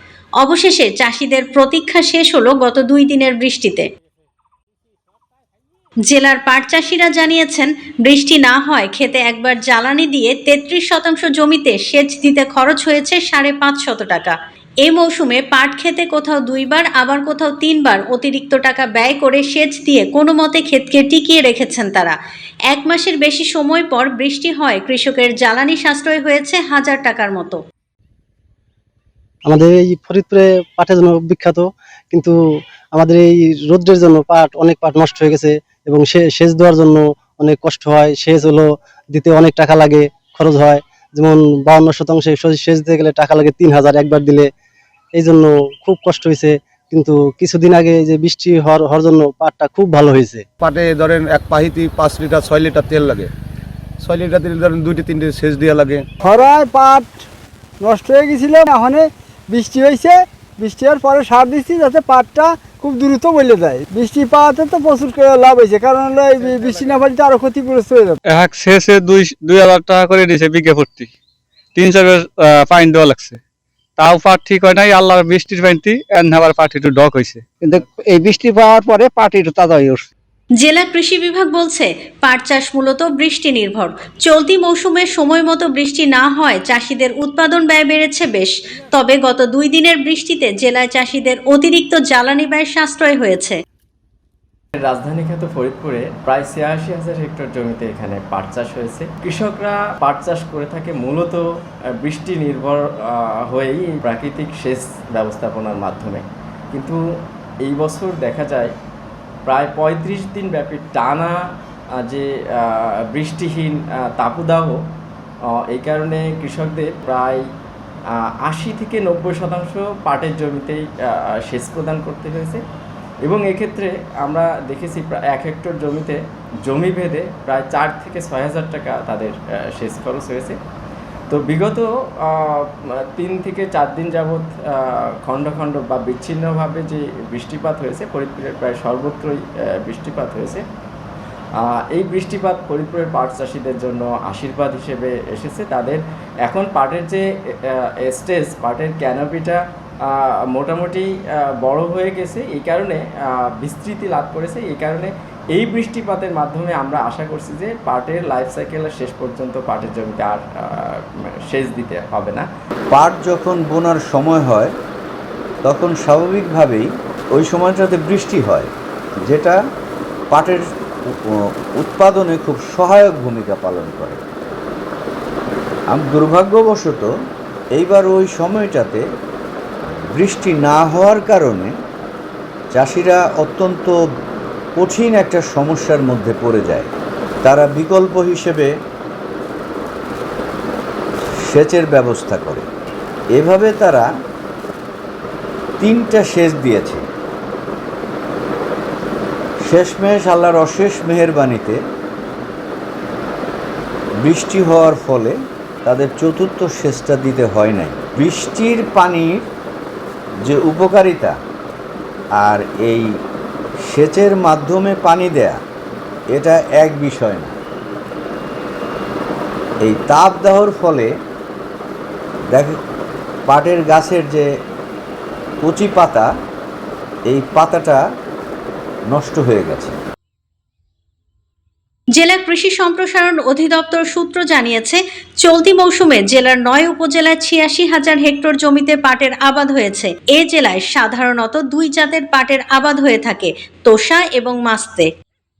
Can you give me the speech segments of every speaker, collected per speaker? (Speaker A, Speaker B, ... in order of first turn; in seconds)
Speaker A: 0.4-3.9, 6.0-22.2, 22.7-27.6, 80.6-93.6, 232.2-245.1
Speaker B: 29.4-32.4, 32.9-44.5, 45.1-50.4
Speaker C: 50.6-53.3, 54.0-56.0
Speaker D: 56.2-57.3, 57.8-68.2
Speaker E: 68.3-71.1, 71.7-73.4, 74.0-77.5
Speaker F: 77.6-80.0
Speaker G: 94.8-101.4, 102.0-107.0, 107.6-108.7, 109.5-111.3, 112.0-114.8, 115.7-117.4, 118.4-122.6, 123.2-130.6, 131.3-140.6, 141.6-162.4
Speaker H: 162.9-164.7, 165.6-169.6, 170.3-174.2, 175.9-177.1, 177.7-179.0, 179.9-181.7, 182.7-183.9, 184.8-186.9, 187.4-188.7, 191.5-192.6, 193.3-194.1, 195.8-197.0, 199.6-201.8, 204.2-209.4, 210.4-211.3, 212.4-213.1, 213.8-215.6, 216.3-217.5, 219.8-221.1, 223.5-224.4, 225.6-226.3, 227.3-228.0, 229.1-230.0